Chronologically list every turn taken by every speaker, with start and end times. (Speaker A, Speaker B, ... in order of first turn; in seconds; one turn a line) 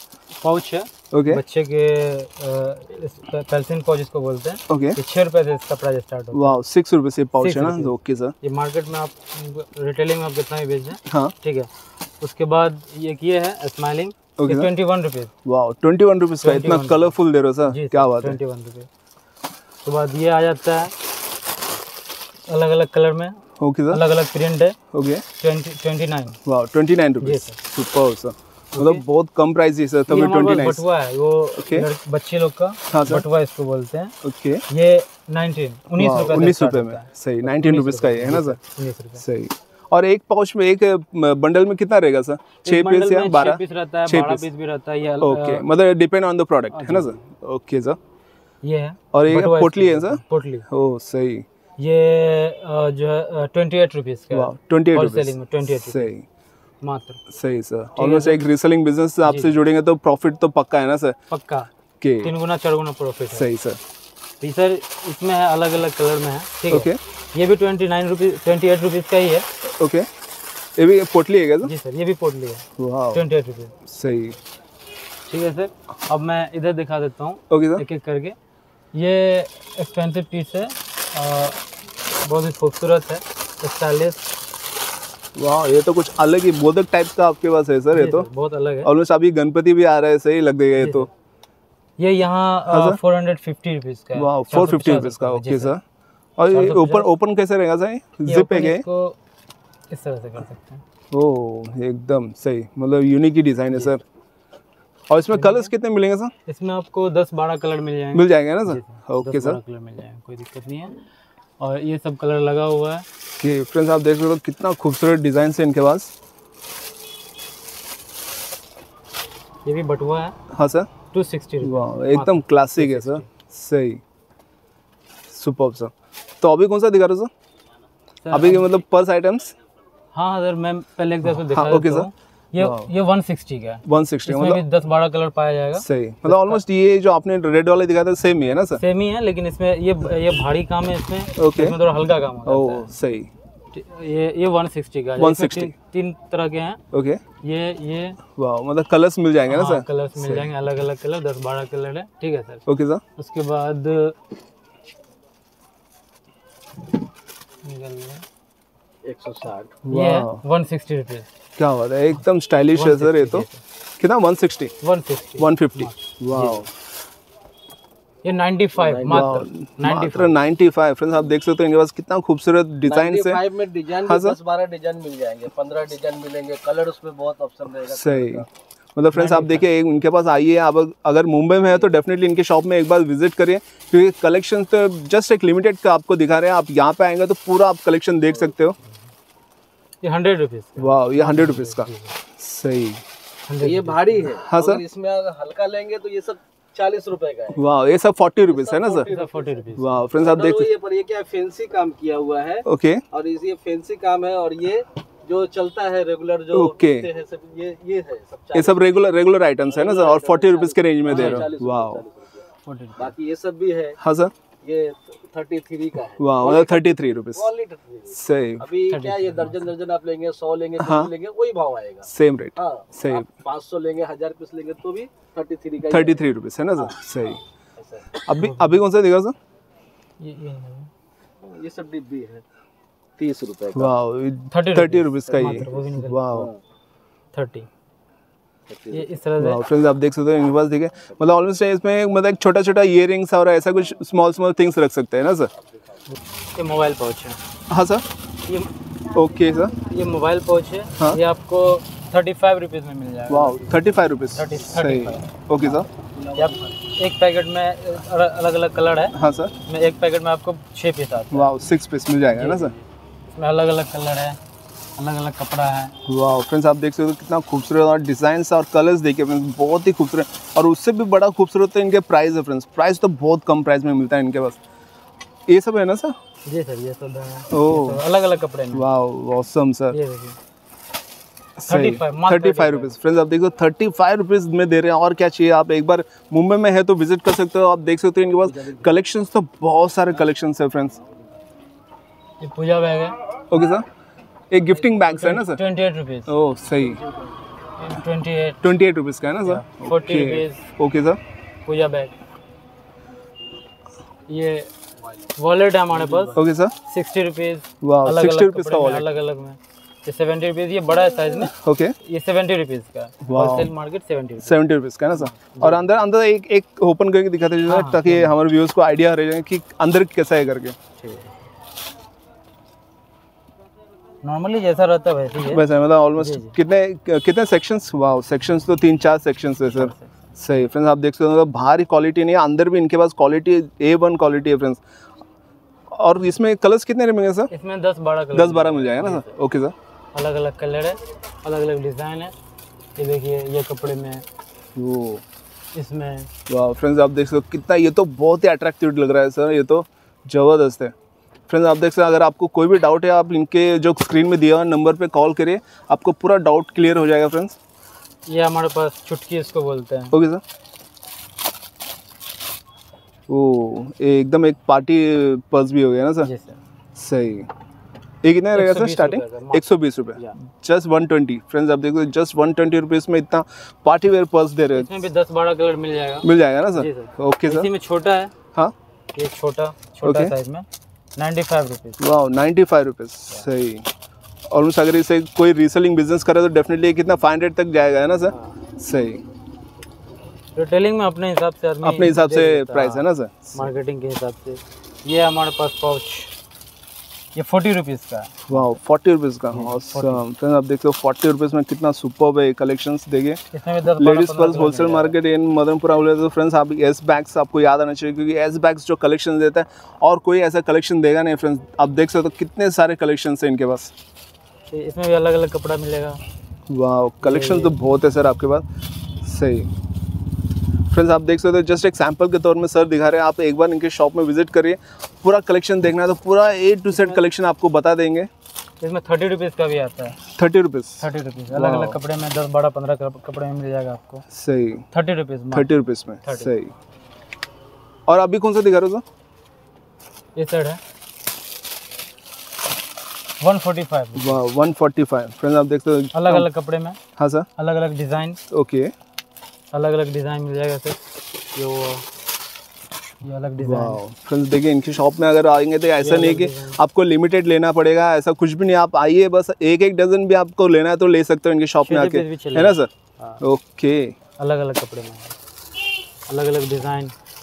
Speaker A: 0.4-6.6
Speaker B: 1.1-1.4
Speaker B: 4.7-5.0
Speaker B: 6.3-8.3
Speaker A: 7.4-11.7
Speaker B: 11.1-11.3
Speaker A: 12.2-15.3
Speaker B: 14.4-14.7
Speaker B: 15.4-18.4
Speaker A: 16.4-18.9
Speaker A: 19.9-20.9
Speaker A: 22.5-24.8
Speaker B: 23.6-24.0
Speaker B: 24.9-25.2
Speaker A: 25.3-26.4
Speaker B: 26.4-30.9
Speaker A: 27.2-27.6
Speaker A: 28.7-29.0
Speaker A: 30.1-34.1
Speaker B: 31.6-31.9
Speaker B: 32.9-33.3
Speaker B: 34.2-34.6
Speaker A: 34.7-39.2
Speaker B: 36.0-38.6
Speaker B: 39.2-44.5
Speaker A: 42.6-45.7
Speaker B: 45.2-48.0
Speaker A: 46.7-47.2
Speaker A: 48.6-50.6
Speaker B: 49.1-51.5
Speaker A: 51.8-56.1
Speaker B: 54.3-56.3
Speaker A: 56.8-57.2
Speaker B: 57.3-61.2
Speaker A: 58.0-58.4
Speaker A: 59.2-59.5
Speaker A: 61.3-61.7
Speaker B: 62.0-62.3
Speaker A: 62.2-63.5
Speaker B: 63.3-63.8
Speaker A: 64.4-69.5
Speaker B: 66.7-67.0
Speaker B: 69.7-70.1
Speaker B: 70.8-71.7
Speaker A: 71.6-73.8
Speaker B: 72.8-73.2
Speaker B: 73.8-74.4
Speaker A: 75.3-78.4
Speaker B: 77.5-77.8
Speaker A: 78.9-81.6
Speaker A: 82.2-84.3
Speaker B: 85.4-88.3
Speaker A: 88.0-88.9
Speaker B: 88.8-91.1
Speaker A: 90.8-91.1
Speaker A: 92.0-95.8
Speaker B: 92.7-93.0
Speaker B: 94.2-95.8
Speaker B: 96.4-98.8
Speaker A: 96.5-97.1
Speaker A: 98.3-99.2
Speaker A: 99.9-100.8
Speaker B: 101.1-104.0
Speaker B: 105.1-106.3
Speaker A: 105.3-105.7
Speaker A: 106.5-111.0
Speaker B: 108.1-109.6
Speaker A: 111.6-113.0
Speaker B: 113.4-116.1
Speaker A: 119.7-120.4
Speaker B: 120.5-120.9
Speaker A: 121.1-123.3
Speaker B: 121.6-124.0
Speaker B: 125.3-127.3
Speaker A: 128.2-128.7
Speaker B: 128.3-129.6
Speaker A: 130.1-136.6
Speaker B: 131.3-132.1
Speaker B: 132.6-132.9
Speaker B: 133.8-134.6
Speaker B: 135.8-138.8
Speaker A: 138.8-142.9
Speaker B: 141.4-141.8
Speaker B: 142.4-143.3
Speaker A: 143.7-146.8
Speaker B: 145.2-145.7
Speaker B: 146.9-147.2
Speaker A: 147.4-148.2
Speaker B: 148.4-150.5
Speaker A: 149.5-152.6
Speaker B: 152.7-153.0
Speaker A: 153.2-154.2
Speaker A: 157.6-158.2
Speaker C: 159.0-159.8
Speaker B: 159.8-160.4
Speaker A: 159.9-161.3
Speaker B: 161.6-163.5
Speaker A: 162.7-163.6
Speaker B: 164.0-164.7
Speaker A: 164.8-166.7
Speaker B: 165.4-166.7
Speaker A: 168.2-170.4
Speaker C: 168.8-169.4
Speaker B: 169.1-173.4
Speaker C: 172.8-178.5
Speaker B: 174.1-174.4
Speaker B: 177.9-178.4
Speaker B: 179.0-188.8
Speaker A: 179.1-179.7
Speaker A: 190.0-192.2
Speaker B: 190.8-193.0
Speaker A: 193.5-194.3
Speaker C: 193.6-197.7
Speaker B: 194.3-194.8
Speaker B: 197.6-199.1
Speaker C: 198.5-199.6
Speaker A: 199.1-200.1
Speaker B: 199.8-200.7
Speaker C: 200.2-208.9
Speaker B: 202.7-203.0
Speaker B: 206.5-207.1
Speaker B: 208.5-212.0
Speaker C: 209.7-212.4
Speaker A: 211.1-211.5
Speaker A: 212.7-213.1
Speaker C: 213.0-214.0
Speaker B: 214.0-214.3
Speaker C: 214.6-226.2
Speaker B: 216.2-217.5
Speaker B: 218.1-218.7
Speaker A: 218.9-219.7
Speaker B: 220.8-221.1
Speaker B: 222.1-223.3
Speaker B: 225.9-227.4
Speaker C: 227.8-228.1
Speaker B: 228.2-229.4
Speaker A: 228.3-228.8
Speaker A: 230.2-230.9
Speaker C: 231.4-232.4
Speaker C: 233.2-233.9
Speaker B: 233.7-236.5
Speaker A: 234.5-236.2
Speaker C: 235.4-235.8
Speaker C: 236.3-236.6
Speaker A: 237.3-237.7
Speaker C: 238.7-239.0
Speaker A: 238.9-239.6
Speaker B: 239.4-245.5
Speaker A: 246.5-247.4
Speaker B: 247.7-248.0
Speaker B: 249.1-249.7
Speaker A: 249.8-253.8
Speaker B: 253.3-255.9
Speaker A: 254.3-255.8
Speaker C: 255.9-256.8
Speaker A: 256.4-261.5
Speaker B: 259.1-259.5
Speaker B: 261.3-262.7
Speaker A: 262.3-264.4
Speaker A: 265.0-265.9
Speaker B: 266.1-274.6
Speaker B: 275.5-276.2
Speaker A: 276.5-278.9
Speaker B: 277.5-278.0
Speaker B: 278.7-280.0
Speaker A: 279.9-280.4
Speaker B: 281.6-291.0
Speaker A: 281.7-282.9
Speaker C: 288.4-288.9
Speaker A: 292.4-293.2
Speaker B: 293.5-293.9
Speaker B: 294.5-295.6
Speaker A: 294.6-296.3
Speaker B: 296.3-297.0
Speaker A: 297.8-298.6
Speaker B: 298.6-301.2
Speaker A: 299.4-300.7
Speaker A: 301.7-302.1
Speaker A: 304.3-304.7
Speaker A: 305.4-314.6
Speaker B: 306.4-306.7
Speaker B: 307.8-309.1
Speaker B: 311.5-311.9
Speaker B: 313.2-313.7
Speaker B: 314.4-320.8
Speaker A: 315.1-315.9
Speaker A: 317.7-318.4
Speaker A: 321.0-321.3
Speaker A: 324.2-325.7
Speaker B: 325.5-334.8
Speaker A: 326.2-326.5
Speaker A: 329.8-330.1
Speaker B: 335.9-337.5
Speaker A: 337.5-339.4
Speaker B: 338.3-339.8
Speaker A: 340.1-342.3
Speaker A: 343.0-344.2
Speaker B: 344.8-345.2
Speaker A: 345.7-346.3
Speaker B: 346.5-350.9
Speaker B: 351.5-357.6
Speaker A: 358.3-360.2
Speaker B: 360.1-360.4
Speaker B: 363.3-366.3
Speaker A: 366.2-366.6
Speaker B: 366.9-367.5
Speaker B: 368.2-375.0
Speaker A: 368.5-370.4
Speaker A: 374.7-378.3
Speaker B: 376.2-377.7
Speaker A: 379.1-380.7
Speaker B: 380.0-380.3
Speaker A: 381.2-382.0
Speaker B: 382.0-383.9
Speaker B: 384.5-389.2
Speaker A: 390.6-396.3
Speaker B: 391.8-393.7
Speaker A: 397.4-398.7
Speaker B: 398.5-403.4
Speaker A: 399.5-400.2
Speaker A: 403.5-405.1
Speaker B: 404.0-413.9
Speaker A: 414.7-416.2
Speaker B: 416.7-418.6
Speaker A: 417.2-417.8
Speaker B: 419.2-419.7
Speaker B: 420.9-428.3
Speaker A: 426.9-427.2
Speaker A: 428.8-430.2
Speaker B: 430.3-432.0
Speaker A: 431.0-434.2
Speaker B: 434.3-434.9
Speaker A: 434.9-436.5
Speaker B: 435.5-436.7
Speaker B: 438.1-439.0
Speaker A: 440.4-440.8
Speaker A: 443.4-444.4
Speaker B: 444.2-446.5
Speaker A: 446.1-447.0
Speaker B: 447.2-447.5
Speaker A: 447.6-448.4
Speaker B: 448.5-448.9
Speaker A: 449.7-451.0
Speaker A: 451.6-452.0
Speaker A: 453.2-454.0
Speaker B: 453.6-462.9
Speaker A: 456.0-456.8
Speaker A: 461.8-463.4
Speaker B: 463.4-464.2
Speaker A: 464.4-465.4
Speaker A: 466.3-467.1